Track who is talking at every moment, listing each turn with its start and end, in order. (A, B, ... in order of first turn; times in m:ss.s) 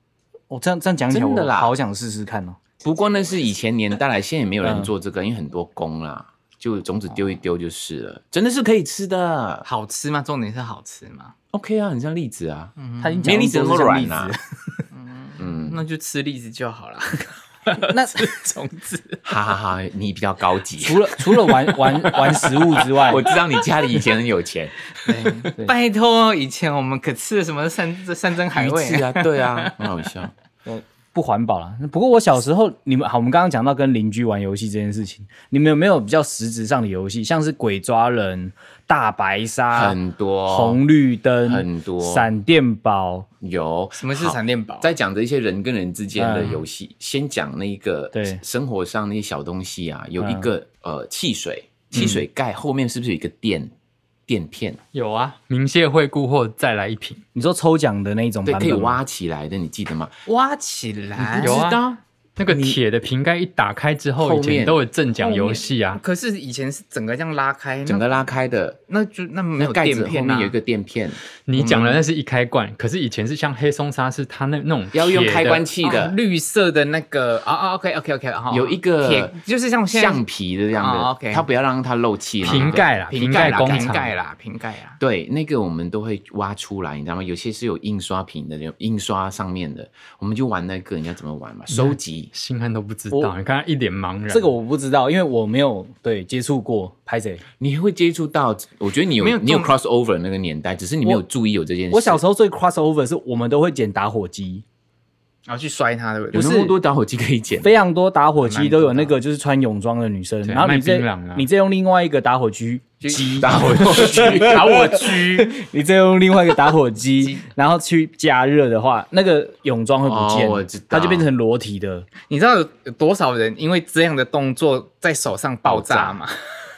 0:00.5-0:02.6 A
0:01.1-0:01.7 B
0:02.8-0:09.6 B
0:04.6-0:04.9 A
0:09.6-0:11.3 C
0:11.5-0:14.3 B
0:12.8-0:13.3 C
0:13.0-0:14.8 A
0:14.9-0:19.2 C
0:15.4-0:15.8 B
0:17.8-0:18.3 A
0:19.2-0:24.9 B
0:20.8-0:23.3 A
0:25.0-0:29.7 C
0:28.5-0:30.3 B
0:30.6-0:43.3 A
0:39.7-0:40.8 B
0:41.4-0:42.3 B
0:43.4-0:53.7 B
0:44.0-0:44.9 C
0:46.2-0:46.6 A
0:48.1-0:48.4 A
0:50.2-0:50.5 A
0:51.9-0:52.2 A
0:54.3-0:54.8 B
0:54.9-0:57.2 D
0:57.3-0:59.0 A
0:58.4-1:00.1 B
1:00.2-1:01.7 C
1:01.2-1:01.9 B
1:01.4-1:06.0 D
1:02.5-1:02.8 B
1:04.2-1:04.8 B
1:05.1-1:08.0 C
1:07.8-1:08.8 B
1:08.9-1:10.5 C
1:09.6-1:11.2 B
1:11.4-1:15.7 D
1:11.6-1:12.0 C
1:14.9-1:16.2 B
1:15.8-1:20.2 C
1:18.5-1:19.4 B
1:19.9-1:23.9 B
1:20.8-1:21.5 C
1:22.4-1:24.1 D
1:22.4-1:25.0 C
1:25.0-1:32.3 B
1:31.7-1:34.5 D
1:34.3-1:37.4 A
1:37.6-1:42.2 B
1:39.2-1:39.7 C
1:41.9-1:44.6 A
1:45.5-1:46.6 C
1:46.3-1:46.8 A
1:46.3-1:47.7 B
1:47.6-2:02.1 A
1:48.4-1:49.1 C
1:50.4-1:51.5 D
1:53.0-1:55.5 C
1:53.4-1:54.7 B
1:57.2-1:57.5 C
2:00.0-2:01.3 B
2:02.3-2:06.4 C
2:05.6-2:06.2 B